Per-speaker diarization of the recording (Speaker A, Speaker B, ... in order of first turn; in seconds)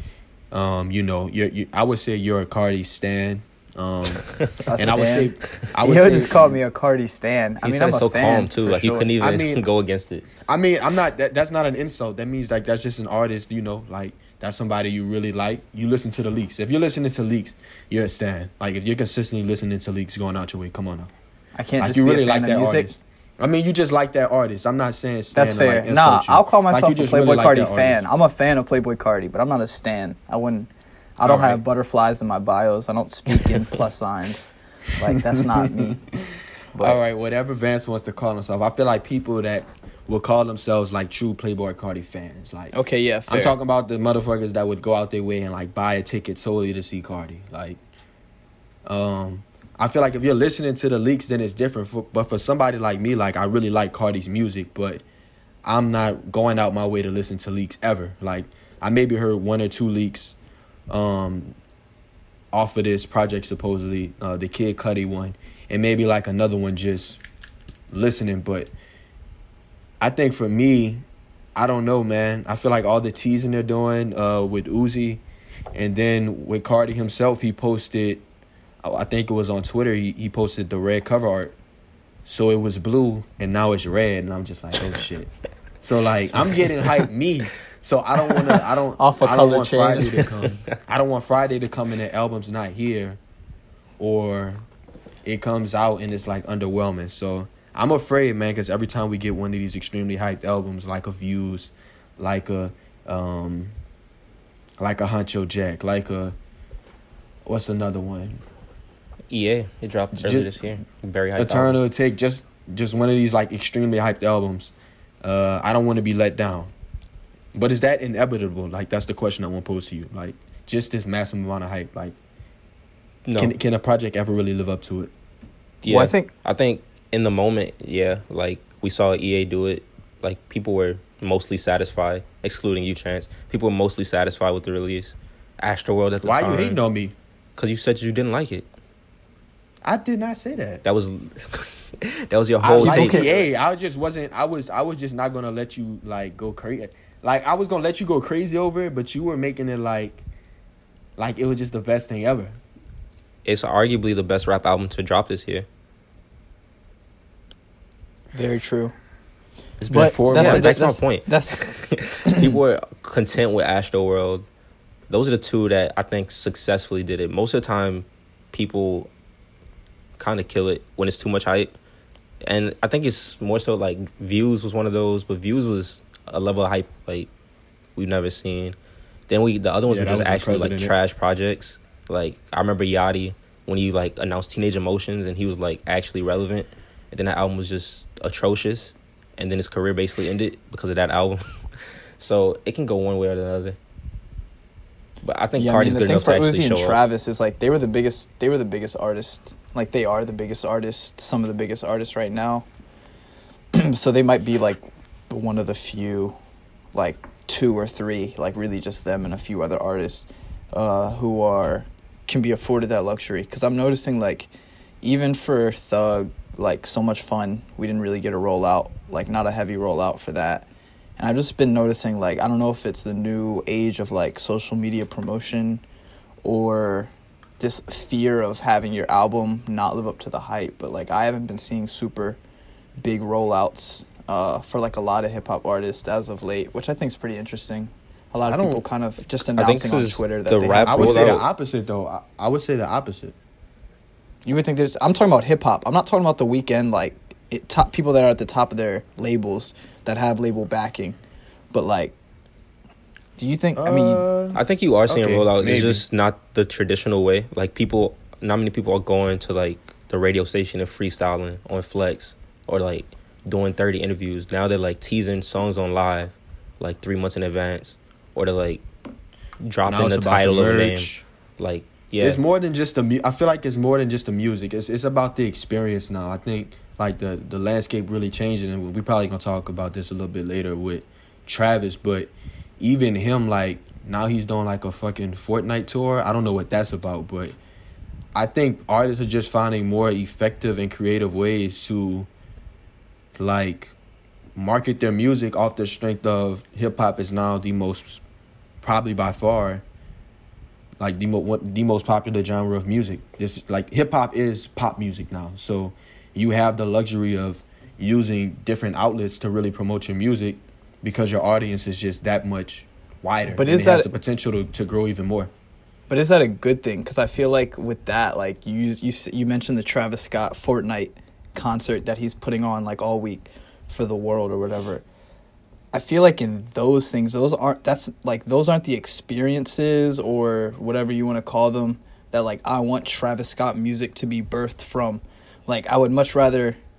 Speaker A: 0.5-4.2, 4.8-6.5, 9.2-9.7, 10.4-21.1, 21.8-28.0, 31.2-31.6, 35.3-42.8, 43.3-47.8, 48.9-55.0, 55.6-60.4, 60.9-61.6, 62.5-67.2, 67.9-68.7, 70.0-71.0, 71.6-75.2, 75.7-78.2, 78.8-81.6, 82.2-85.3, 85.8-93.2, 94.0-94.7, 95.2-103.8, 104.8-106.4, 107.5-108.4, 110.2-110.5, 111.4-116.7, 117.5-122.2, 123.4-125.1, 136.2-137.2, 139.8-140.8, 142.6-150.2, 151.2-152.6, 160.2-160.8, 179.9-180.9, 238.4-238.8, 240.9-243.4, 253.8-256.0, 269.9-271.2, 272.2-287.6, 288.4-292.3, 293.4-293.9, 294.6-298.2, 298.8-299.8, 301.0-315.5
Speaker B: 4.7-9.1, 21.6-22.9, 25.3-36.0, 36.7-37.0, 42.7-43.5, 89.0-90.2, 125.8-126.3, 142.8-143.4, 158.3-158.9, 159.9-161.7, 162.2-162.6, 195.6-202.7, 203.7-206.4, 206.9-214.5, 215.0-220.7, 221.2-225.8, 226.4-232.4, 233.0-241.4, 244.4-251.2, 251.7-252.2, 253.4-254.3, 313.5-314.2, 316.1-325.1, 325.9-336.8
Speaker C: 7.6-10.3, 109.3-111.8, 123.3-123.5, 125.8-136.8, 137.6-138.7, 140.8-143.3, 153.4-155.7, 159.8-164.5, 165.1-169.1, 170.2-171.7, 172.4-177.3, 178.0-178.8, 179.3-191.4, 192.2-193.8, 195.2-197.0, 239.5-241.4, 254.6-268.8, 269.6-272.4